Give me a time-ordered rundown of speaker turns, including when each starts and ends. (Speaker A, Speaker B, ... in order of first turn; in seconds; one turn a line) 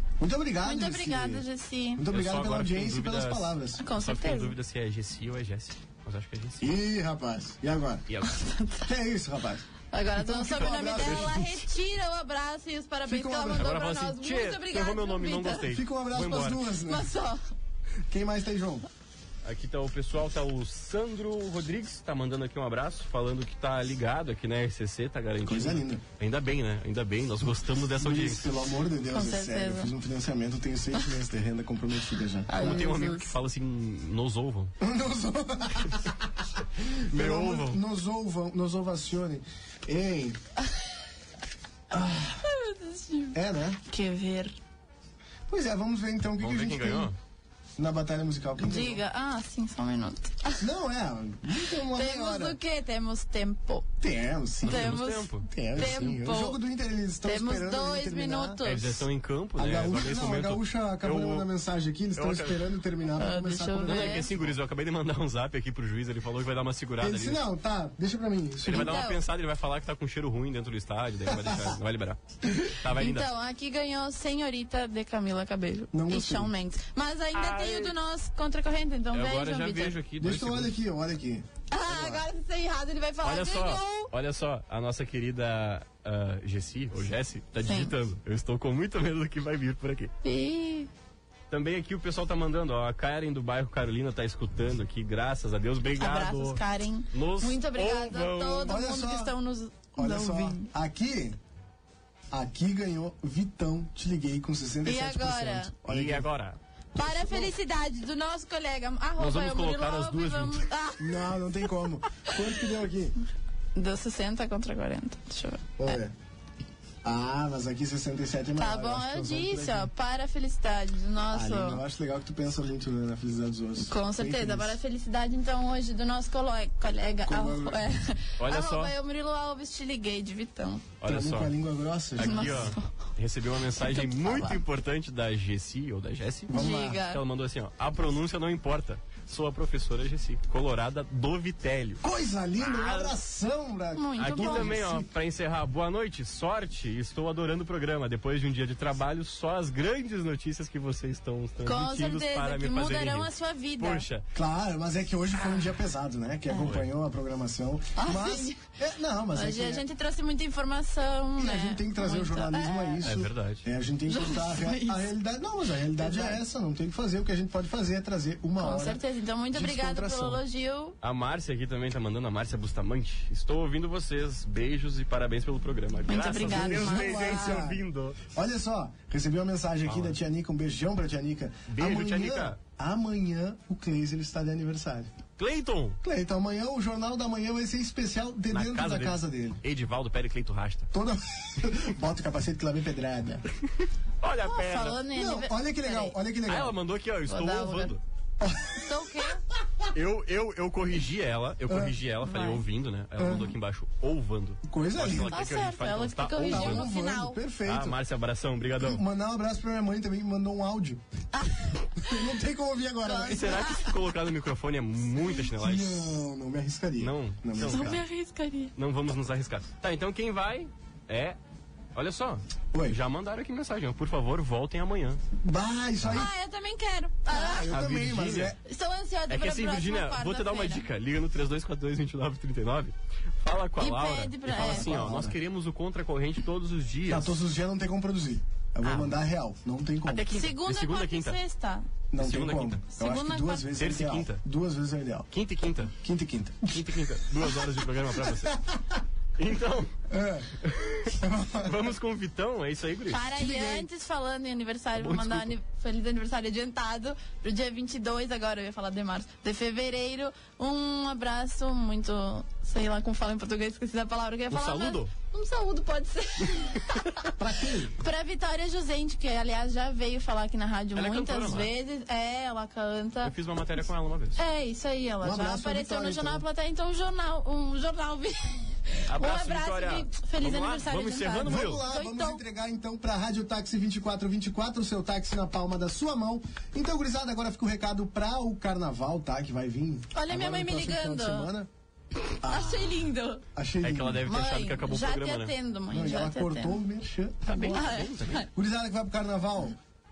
Speaker A: 0.2-1.4
Speaker B: 0.6-2.0
Speaker A: 2.0-3.9
Speaker C: 2.1-6.7
Speaker B: 3.8-4.5
Speaker A: 6.6-8.1
Speaker B: 8.2-8.9
Speaker A: 8.9-9.6
Speaker B: 9.9-15.7
Speaker A: 10.2-11.4
Speaker C: 10.4-11.6
Speaker A: 13.1-13.7
Speaker C: 13.6-16.7
Speaker A: 15.7-17.1
Speaker B: 16.9-17.4
Speaker A: 18.1-18.9
Speaker C: 19.4-28.5
Speaker A: 25.4-26.0
Speaker A: 28.0-32.8
Speaker B: 29.1-29.9
Speaker B: 32.5-33.3
Speaker C: 32.6-34.7
Speaker A: 34.8-40.4
Speaker C: 37.1-37.8
Speaker A: 41.9-42.4
Speaker B: 42.4-43.4
Speaker A: 43.3-43.8
Speaker B: 43.9-44.6
Speaker A: 45.5-47.1
Speaker C: 46.4-47.2
Speaker A: 47.8-49.0
Speaker B: 48.6-50.6
Speaker A: 50.6-52.6
Speaker B: 51.9-53.9
Speaker A: 54.0-58.6
Speaker B: 54.6-56.6
Speaker C: 54.7-55.5
Speaker B: 57.2-59.0
Speaker C: 58.6-61.5
Speaker A: 59.6-64.5
Speaker C: 62.2-62.6
Speaker B: 63.2-64.3
Speaker C: 63.9-67.4
Speaker A: 67.0-69.0
Speaker C: 68.7-73.3
Speaker B: 68.7-69.2
Speaker A: 71.3-71.8
Speaker B: 72.9-80.0
Speaker A: 75.9-76.5
Speaker C: 77.3-78.0
Speaker C: 79.1-80.8
Speaker A: 80.2-82.2
Speaker B: 81.7-84.1
Speaker C: 83.2-90.1
Speaker B: 87.7-87.9
Speaker B: 90.2-90.9
Speaker C: 91.5-96.6
Speaker B: 96.0-100.7
Speaker C: 97.1-98.8
Speaker A: 98.7-99.3
Speaker A: 100.0-101.4
Speaker A: 102.3-106.3
Speaker B: 104.8-105.7
Speaker C: 105.9-106.6
Speaker A: 107.0-107.5
Speaker B: 107.0-111.3
Speaker C: 109.2-110.7
Speaker A: 111.0-113.2
Speaker B: 113.8-116.0
Speaker A: 115.8-116.1
Speaker A: 117.0-119.9
Speaker B: 118.6-121.8
Speaker A: 121.3-124.8
Speaker B: 123.9-130.9
Speaker A: 127.3-127.8
Speaker C: 128.4-128.9
Speaker C: 131.0-131.5
Speaker A: 131.0-132.7
Speaker C: 132.2-142.0
Speaker B: 132.2-132.9
Speaker B: 133.8-134.6
Speaker A: 136.5-137.0
Speaker B: 136.5-137.2
Speaker A: 142.0-145.1
Speaker C: 142.6-143.2
Speaker B: 143.9-144.9
Speaker C: 144.2-154.2
Speaker B: 151.7-154.0
Speaker A: 154.3-159.8
Speaker B: 158.0-158.6
Speaker B: 159.3-163.0
Speaker A: 161.4-169.0
Speaker C: 163.0-163.6
Speaker B: 164.1-165.1
Speaker B: 166.0-166.4
Speaker B: 168.6-171.0
Speaker A: 169.5-170.4
Speaker C: 171.0-178.2
Speaker B: 176.1-177.6
Speaker A: 176.4-177.8
Speaker A: 178.3-185.1
Speaker C: 179.9-180.2
Speaker C: 181.7-182.6
Speaker C: 185.4-186.0
Speaker A: 186.0-189.6
Speaker C: 188.5-190.9
Speaker A: 190.9-193.4
Speaker C: 194.2-195.0
Speaker B: 194.5-196.2
Speaker A: 195.1-196.8
Speaker C: 196.5-198.0
Speaker B: 197.3-197.9
Speaker A: 198.4-199.0
Speaker B: 198.8-199.4
Speaker C: 199.9-206.9
Speaker A: 201.7-201.9
Speaker B: 202.2-202.6
Speaker A: 203.2-203.5
Speaker A: 204.7-205.4
Speaker B: 205.3-207.4
Speaker A: 206.4-208.0
Speaker C: 207.7-209.0
Speaker A: 208.8-211.0
Speaker B: 211.4-212.1
Speaker A: 212.0-213.9
Speaker B: 213.1-213.9
Speaker C: 213.3-216.1
Speaker A: 215.5-218.0
Speaker C: 217.0-218.0
Speaker B: 217.6-218.7
Speaker C: 218.8-221.4
Speaker C: 221.9-225.2
Speaker A: 222.7-223.0
Speaker A: 225.4-226.3
Speaker B: 226.1-227.7
Speaker A: 227.3-228.6
Speaker C: 227.7-228.6
Speaker B: 228.7-230.8
Speaker C: 229.3-237.3
Speaker B: 233.8-235.1
Speaker A: 234.5-235.4
Speaker A: 237.1-240.3
Speaker C: 238.9-239.1
Speaker C: 240.1-241.4
Speaker B: 240.2-241.9
Speaker A: 242.1-245.3
Speaker C: 242.2-242.8
Speaker B: 242.9-243.7
Speaker C: 243.7-244.4
Speaker C: 245.3-245.9
Speaker A: 246.0-247.0
Speaker C: 246.7-248.6
Speaker A: 248.2-248.9
Speaker C: 249.4-249.9
Speaker A: 250.1-250.6
Speaker C: 250.6-253.3
Speaker A: 251.1-251.9
Speaker B: 253.1-267.2
Speaker A: 253.4-253.9
Speaker C: 254.9-255.5
Speaker C: 264.5-265.1
Speaker A: 267.4-267.9
Speaker B: 268.0-273.3
Speaker C: 270.9-271.7
Speaker C: 273.2-274.4
Speaker B: 274.4-282.4
Speaker A: 275.2-276.4
Speaker C: 279.1-281.8
Speaker A: 281.5-291.7
Speaker B: 290.1-291.5
Speaker A: 292.4-294.3
Speaker B: 292.4-293.4
Speaker C: 293.8-295.5
Speaker B: 294.3-296.8
Speaker A: 295.9-299.8
Speaker C: 297.4-298.4
Speaker B: 297.5-298.5